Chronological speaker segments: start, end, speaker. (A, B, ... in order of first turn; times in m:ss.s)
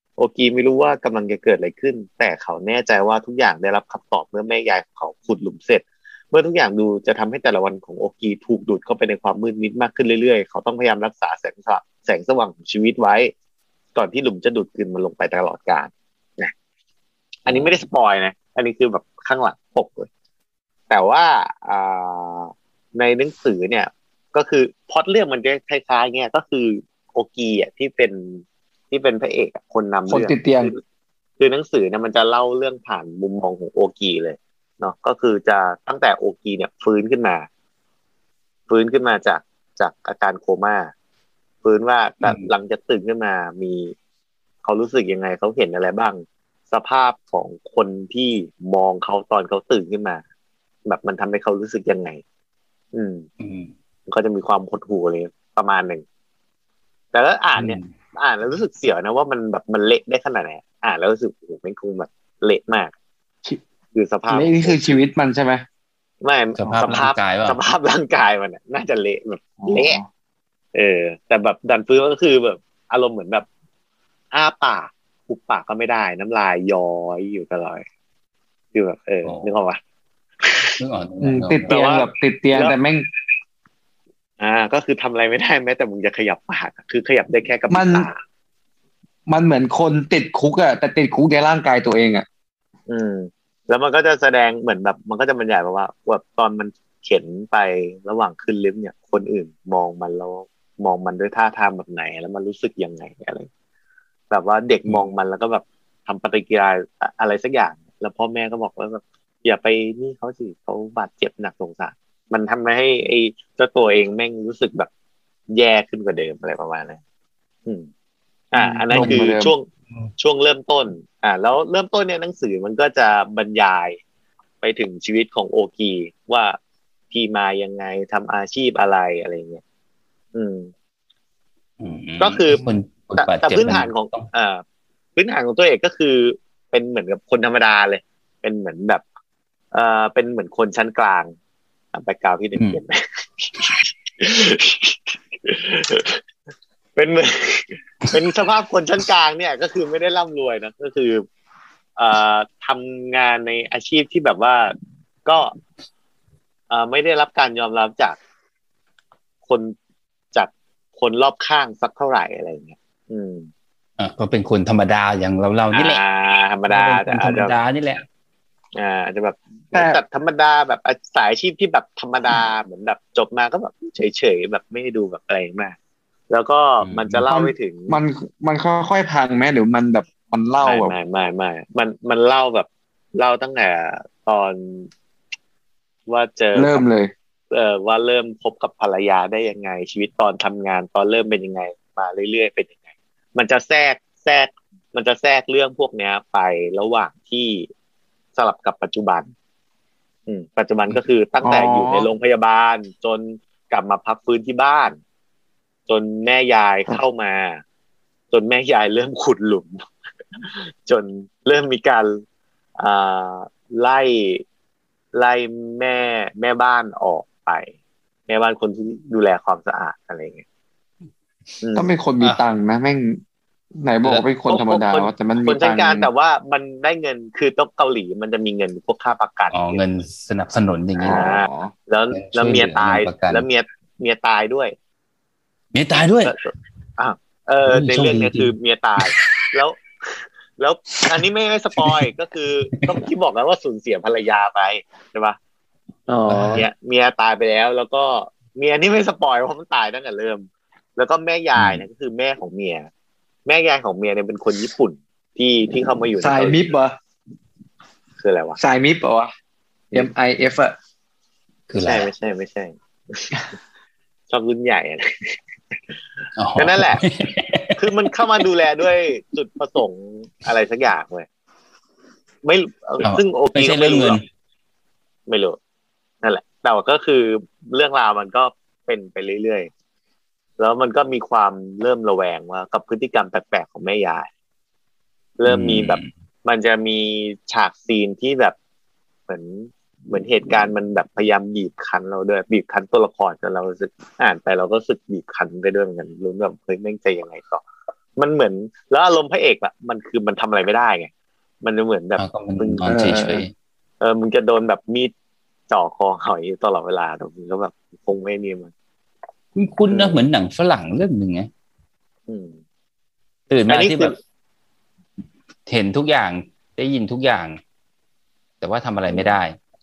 0:00.2-0:13.3 A
0:14.0-0:16.5 A
0:17.4-0:20.1 A
0:17.5-0:17.8 B
0:20.9-0:30.8 A
0:30.1-0:30.7 C
0:31.4-0:37.4 A
0:38.7-0:40.9 A
0:41.6-0:43.9 A
0:44.6-0:50.2 A
0:50.8-0:52.2 A
0:52.9-0:53.2 A
0:53.4-0:53.7 B
0:54.1-0:56.0 A
0:57.1-1:02.9 A
0:57.6-0:57.9 B
1:03.9-1:05.0 A
1:04.3-1:05.6 C
1:06.2-1:10.0 A
1:06.6-1:07.6 B
1:09.6-1:10.1 C
1:10.7-1:13.4 A
1:14.3-1:17.8 A
1:18.7-1:19.8 A
1:19.2-1:19.5 B
1:20.4-1:20.7 A
1:20.8-1:21.8 B
1:21.2-1:23.0 C
1:21.7-1:22.8 A
1:24.4-1:28.2 A
1:27.7-1:28.1 C
1:29.3-1:32.2 C
1:32.9-1:43.5 A
1:44.3-1:54.9 A
1:55.5-1:57.0 A
1:58.5-1:59.7 A
1:58.6-1:59.5 C
2:00.2-2:04.0 A
2:04.6-2:06.6 A
2:07.1-2:09.6 A
2:10.3-2:10.7 A
2:11.8-2:14.2 B
2:12.2-2:14.6 A
2:15.2-2:19.0 A
2:19.7-2:21.3 A
2:21.9-2:26.2 A
2:27.0-2:31.2 A
2:32.0-2:34.7 A
2:35.2-2:35.5 A
2:36.7-2:38.2 A
2:39.4-2:39.7 A
2:40.3-2:43.5 A
2:44.0-2:46.0 B
2:45.7-2:47.6 A
2:46.7-2:48.0 B
2:48.8-2:55.7 A
2:49.7-2:50.0 C
2:56.3-2:58.0 A
2:56.8-2:57.2 B
2:57.3-3:00.9 C
3:00.6-3:04.9 A
3:06.1-3:06.8 A
3:06.5-3:07.1 C
3:07.5-3:12.8 A
3:13.3-3:17.7 A
3:18.4-3:19.3 A
3:20.3-3:25.0 A
3:21.4-3:22.1 C
3:25.9-3:27.6 A
3:28.3-3:29.8 A
3:30.4-3:32.2 A
3:32.8-3:34.4 A
3:35.1-3:37.7 A
3:38.3-3:40.4 A
3:41.6-3:41.9 A
3:41.7-3:43.2 C
3:43.8-3:46.1 C
3:44.0-3:44.3 B
3:44.5-3:49.8 A
3:49.5-3:51.3 B
3:51.0-3:54.7 A
3:51.0-3:51.7 C
3:52.1-3:53.4 B
3:55.7-3:56.3 B
3:57.0-4:05.4 A
3:57.7-3:58.5 B
4:06.1-4:06.6 C
4:06.3-4:06.7 B
4:06.5-4:10.4 A
4:11.0-4:12.9 A
4:11.5-4:11.8 B
4:13.4-4:16.6 A
4:16.2-4:16.9 C
4:18.2-4:18.6 A
4:18.6-4:19.3 C
4:19.9-4:20.7 C
4:21.7-4:22.1 B
4:21.8-4:23.4 A
4:24.3-4:25.4 A
4:26.4-4:27.7 B
4:26.6-4:27.0 A
4:27.8-4:31.3 A
4:32.4-4:34.2 A
4:33.0-4:34.2 B
4:35.3-4:35.6 A
4:36.2-4:39.7 A
4:40.6-4:44.3 A
4:45.4-4:48.5 A
4:45.5-4:46.1 B
4:49.3-4:57.6 A
4:58.2-5:01.1 A
5:01.6-5:03.0 A
5:02.2-5:03.5 B
5:02.8-5:03.5 C
5:04.0-5:05.1 A
5:05.7-5:08.7 A
5:09.5-5:11.5 B
5:09.9-5:10.3 A
5:12.3-5:12.6 A
5:13.5-5:14.1 B
5:13.7-5:14.1 A
5:15.7-5:17.6 B
5:18.6-5:19.6 B
5:19.0-5:19.4 A